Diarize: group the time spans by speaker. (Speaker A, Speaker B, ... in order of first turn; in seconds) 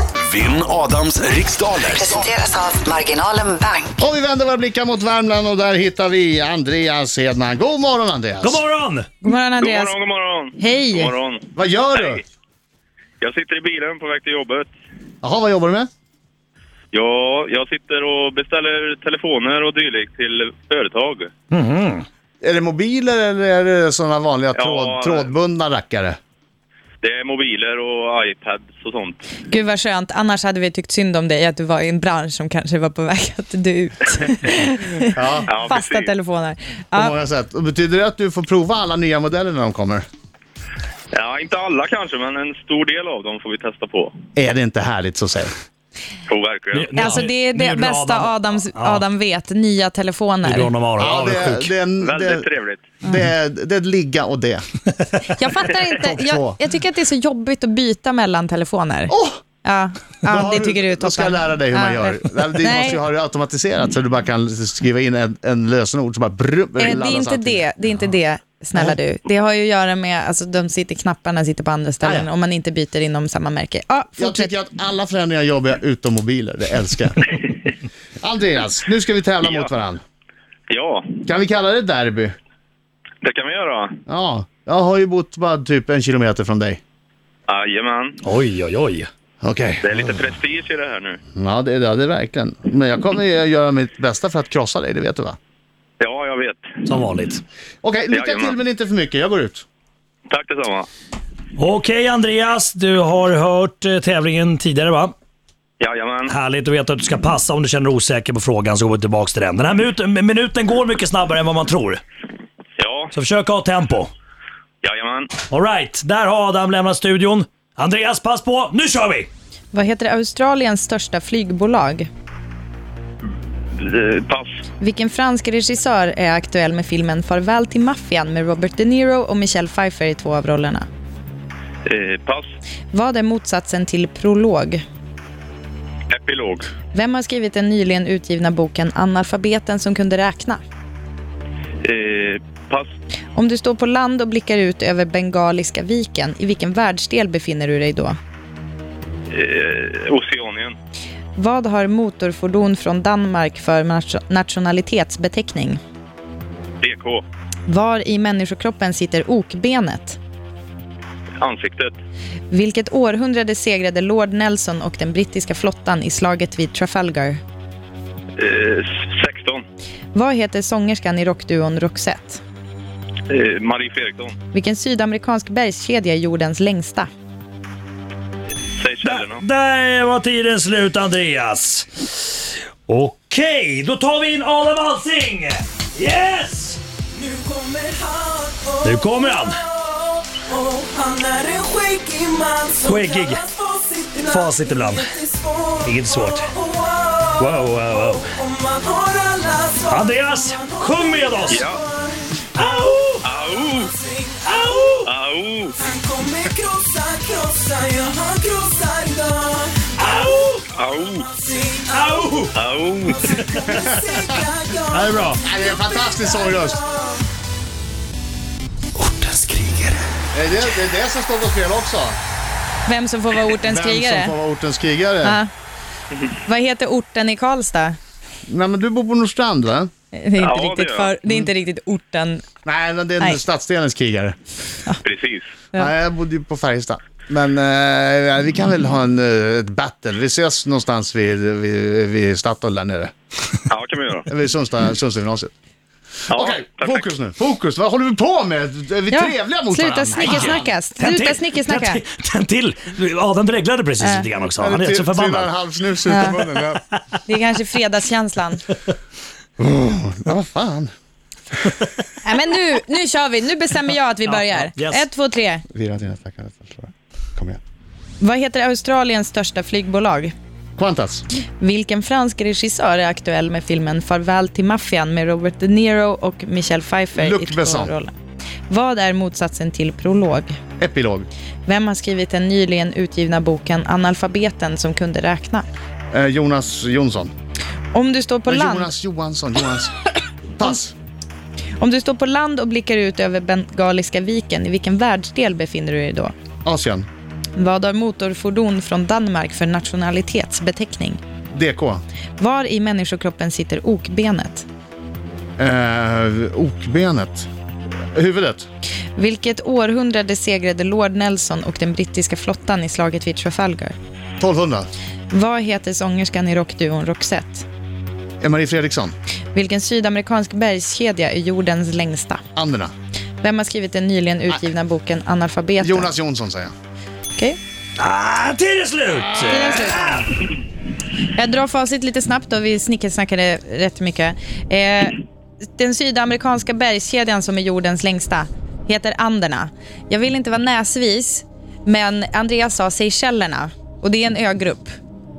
Speaker A: 0.2-2.3, 219.0-220.0
Speaker B: 1.9-4.0
Speaker C: 4.0-8.6, 11.5-12.2, 15.2-15.9, 22.4-26.2, 35.1-35.5, 36.9-40.0, 44.4-45.5, 51.0-52.5, 53.0-54.6, 55.9-56.6, 59.1-59.4, 60.2-67.7, 72.0-72.3, 74.2-77.5, 78.2-80.0, 81.2-82.3, 84.1-86.8, 89.4-89.9, 91.3-95.4, 97.8-99.6, 214.9-216.8, 220.3-222.2, 223.6-225.4, 228.5-229.9, 232.6-234.3, 235.7-243.1, 244.3-245.5, 246.3-250.6, 254.5-256.8, 259.6-260.9, 265.7-267.6, 270.8-271.2, 277.1-277.9, 280.8-281.3, 286.1-287.3, 288.5-289.9, 290.6-290.9, 296.6-297.1, 301.5-302.0, 305.6-307.5, 308.1-308.6, 314.4-314.9, 318.4-319.1, 322.5-322.9, 325.8-326.7
Speaker D: 8.4-9.1, 21.5-22.1, 46.7-49.0, 50.4-51.7, 88.2-89.1, 96.8-97.4, 101.6-105.1, 106.3-112.0, 113.1-114.1, 115.5-119.3, 179.0-181.9, 182.9-186.8, 188.8-189.6, 192.8-193.4, 194.2-195.1, 195.8-196.5, 197.4-198.2, 199.9-201.7, 202.5-203.3, 204.4-205.1, 210.0-210.7, 211.9-212.5, 213.3-213.6, 250.2-255.5, 264.2-265.0, 328.0-330.3
Speaker E: 9.2-9.9, 10.6-11.1, 29.5-37.1, 47.0-50.7, 55.2-63.0, 66.8-74.5, 119.7-122.1, 124.8-130.9, 132.9-134.8, 136.9-140.6, 143.3-148.1, 151.3-155.8, 157.7-160.2, 162.5-167.4, 170.1-172.4, 174.5-177.1, 222.8-224.3, 225.2-225.5, 226.4-228.0, 230.1-232.4, 249.1-252.0, 254.0-254.2, 256.1-256.4, 257.3-258.6, 262.2-265.6, 268.2-270.3, 271.6-278.1, 278.7-280.6, 281.6-285.6, 287.9-288.9, 291.8-296.3, 297.6-301.2, 302.4-304.6, 309.1-313.9, 315.3-317.6, 319.5-322.4, 323.4-326.1, 329.4-330.1, 331.3-335.2, 335.8-344.9
Speaker F: 9.6-12.2, 13.2-14.7, 16.9-21.3, 24.5-25.3, 27.0-29.2, 35.5-36.1, 41.1-44.1, 46.3-47.2, 52.0-52.9, 79.4-79.7, 80.7-81.2, 83.2-84.0, 87.5-88.2, 89.8-91.2, 96.0-96.7, 98.1-98.6, 100.3-100.9, 105.8-106.3, 112.8-113.1, 114.8-115.3, 123.7-124.5, 131.8-132.4, 136.1-136.7, 141.8-142.9, 149.3-150.7, 156.8-157.2, 161.4-161.9, 168.4-169.6, 173.3-174.3, 178.8-179.4, 201.5-201.8, 203.2-203.9, 205.0-205.7, 210.7-211.3, 212.5-213.2, 230.4-231.1, 235.0-235.5, 243.7-244.3, 246.3-247.0
Speaker G: 187.2-202.4, 203.4-204.5, 205.8-210.0, 211.0-212.4, 213.1-217.2